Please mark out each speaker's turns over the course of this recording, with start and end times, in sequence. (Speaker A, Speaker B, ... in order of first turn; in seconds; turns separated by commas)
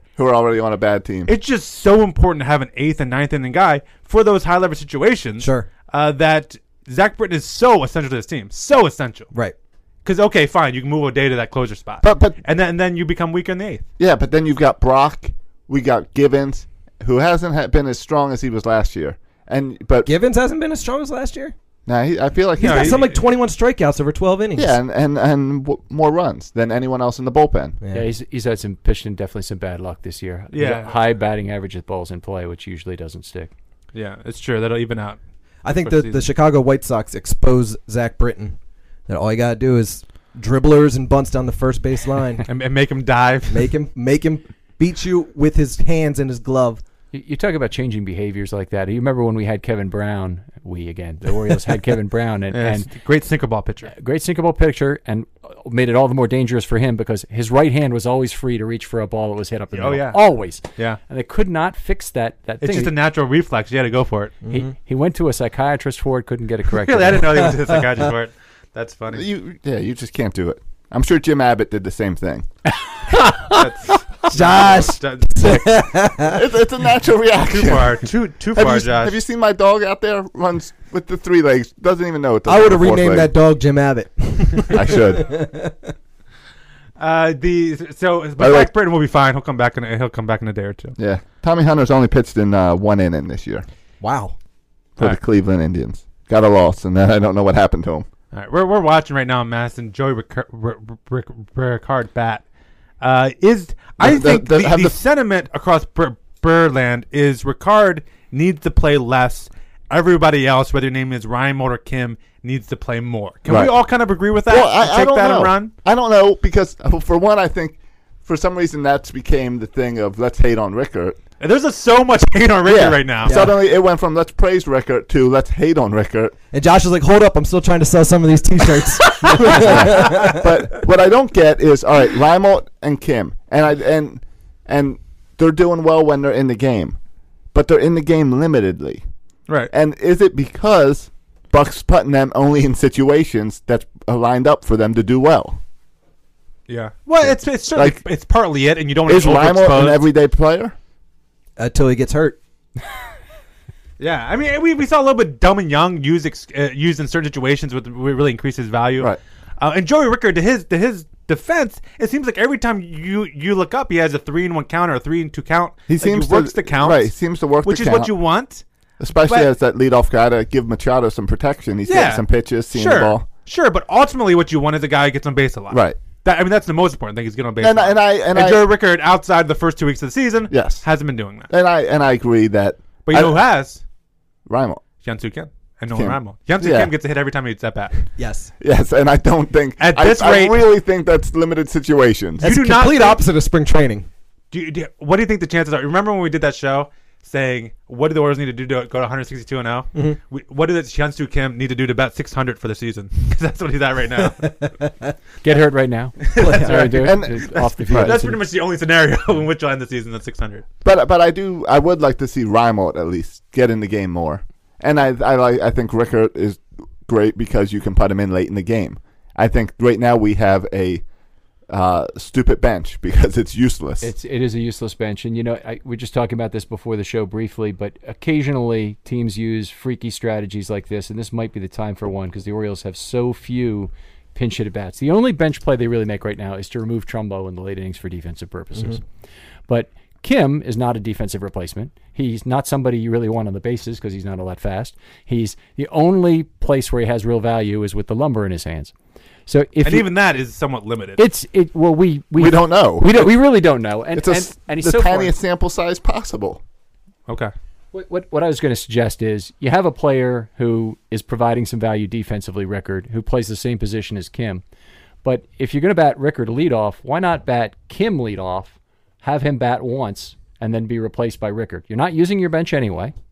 Speaker A: 0.2-1.3, Speaker B: 1.3-9.3, Speaker C: 5.4-5.7, Speaker B: 10.0-13.8, Speaker A: 12.0-12.4, Speaker A: 14.0-20.1, Speaker C: 20.0-21.5, Speaker A: 21.9-23.0, Speaker C: 22.6-24.8, Speaker B: 22.6-23.2, Speaker A: 24.5-27.8, Speaker C: 27.8-28.1, Speaker D: 27.9-33.5, Speaker B: 30.5-30.9, Speaker B: 33.9-36.3, Speaker C: 35.6-42.4, Speaker B: 42.5-43.7, Speaker C: 43.5-46.8, Speaker D: 47.1-52.9, Speaker B: 52.5-53.9, Speaker D: 53.9-62.9, Speaker B: 59.7-60.2, Speaker B: 62.6-64.3, Speaker C: 64.4-64.7, Speaker D: 64.5-67.5, Speaker B: 66.7-69.3, Speaker A: 69.1-72.5, Speaker B: 73.4-75.9, Speaker C: 74.3-76.4, Speaker A: 76.2-83.3, Speaker B: 77.5-79.2, Speaker C: 82.5-85.9, Speaker A: 84.7-85.3, Speaker B: 87.0-91.0, Speaker A: 88.4-88.7, Speaker A: 91.0-93.6, Speaker C: 94.0-94.3, Speaker A: 95.0-98.1, Speaker B: 98.3-102.4, Speaker B: 103.0-115.7, Speaker A: 104.0-105.0, Speaker A: 113.5-113.8, Speaker A: 114.5-121.2, Speaker B: 121.4-123.5, Speaker A: 122.6-126.3, Speaker C: 123.2-123.5, Speaker C: 126.5-130.5, Speaker A: 129.4-137.0, Speaker A: 137.5-139.0, Speaker A: 139.7-145.6, Speaker B: 146.7-150.0, Speaker A: 147.2-148.0, Speaker A: 149.1-150.8, Speaker C: 151.6-152.4, Speaker B: 154.0-167.1, Speaker A: 165.9-168.1, Speaker B: 167.6-168.6, Speaker A: 169.0-173.2, Speaker B: 171.9-181.5, Speaker A: 175.7-176.0, Speaker A: 177.6-178.7, Speaker A: 180.5-180.8, Speaker A: 181.5-183.4, Speaker B: 183.1-183.8, Speaker A: 184.5-184.8, Speaker B: 185.0-188.1, Speaker A: 185.9-186.9, Speaker C: 188.2-188.5, Speaker A: 188.6-192.5, Speaker B: 189.8-190.6, Speaker C: 192.4-194.1, Speaker B: 192.4-193.2, Speaker B: 194.5-204.6, Speaker C: 204.2-205.1, Speaker D: 205.4-208.4, Speaker B: 206.2-210.7, Speaker C: 206.3-207.0, Speaker A: 206.9-208.2, Speaker A: 210.8-221.0, Speaker A: 221.7-224.1, Speaker D: 224.0-239.0, Speaker D: 239.7-248.9, Speaker D: 249.5-250.1, Speaker B: 249.8-251.2, Speaker D: 251.2-255.3, Speaker A: 252.4-253.3, Speaker A: 254.1-256.6, Speaker D: 257.9-264.6, Speaker D: 265.2-273.1